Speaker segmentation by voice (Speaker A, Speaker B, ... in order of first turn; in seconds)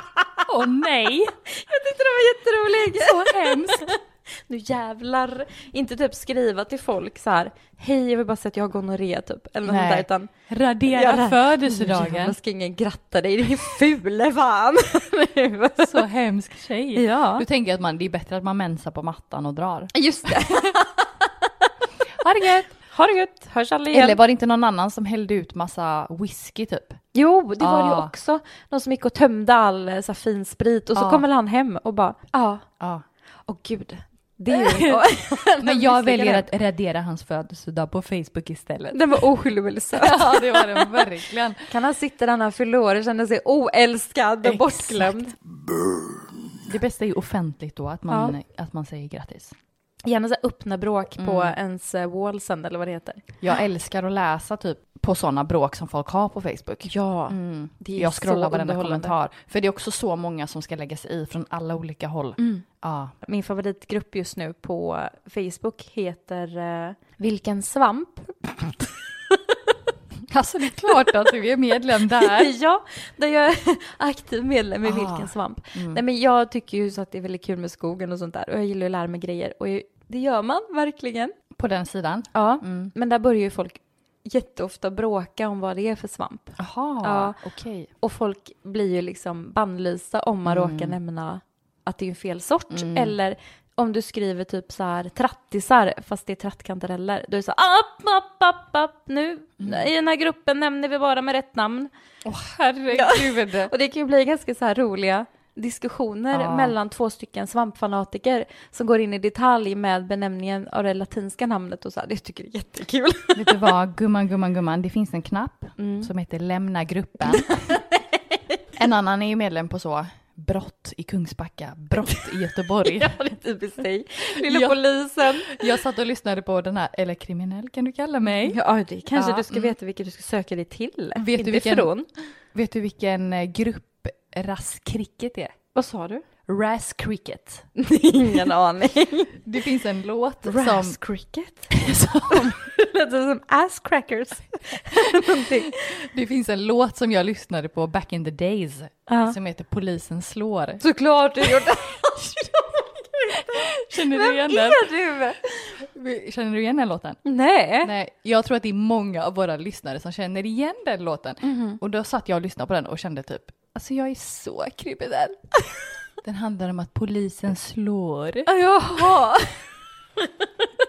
Speaker A: 0.5-1.3, 2.8-3.9, 9.7-12.3, 15.8-20.5, 22.2-22.7, 23.9-27.0, 27.6-28.1, 30.9-31.2, 34.5-39.0, 39.9-41.6, 44.4-45.1, 46.6-49.5, 51.2-51.5, 53.4-63.1, 70.3-72.5, 74.8-76.0, 81.5-82.9, 86.6-87.9, 90.5-91.0, 92.7-93.1, 99.6-99.9, 102.2-103.7, 106.3-106.7, 113.3-117.6, 118.8-123.2, 124.4-128.6, 129.1-129.7, 131.2-131.9, 132.5-135.5, 136.5-137.7, 139.4-141.0, 141.7-142.6, 145.2-150.8, 151.4-152.5, 153.4-154.8, 155.8-157.2, 157.8-165.4, 166.2-168.5
Speaker B: 1.5-10.3, 10.9-16.0, 16.9-17.4, 19.9-21.3, 22.7-24.2, 27.1-32.6, 33.5-36.5, 38.9-41.0, 41.7-45.4, 48.1-48.4, 50.0-53.2, 56.8-59.1, 62.4-62.6, 63.2-69.3, 72.2-81.3, 82.3-87.4, 88.0-101.9, 102.9-113.6, 115.8-116.1, 117.3-118.4, 122.8-125.7, 128.4-132.1, 135.7-136.2, 137.8-139.4, 140.4-146.0, 149.1-149.4, 150.8-155.8, 157.2-157.9, 161.4-161.8, 168.4-169.6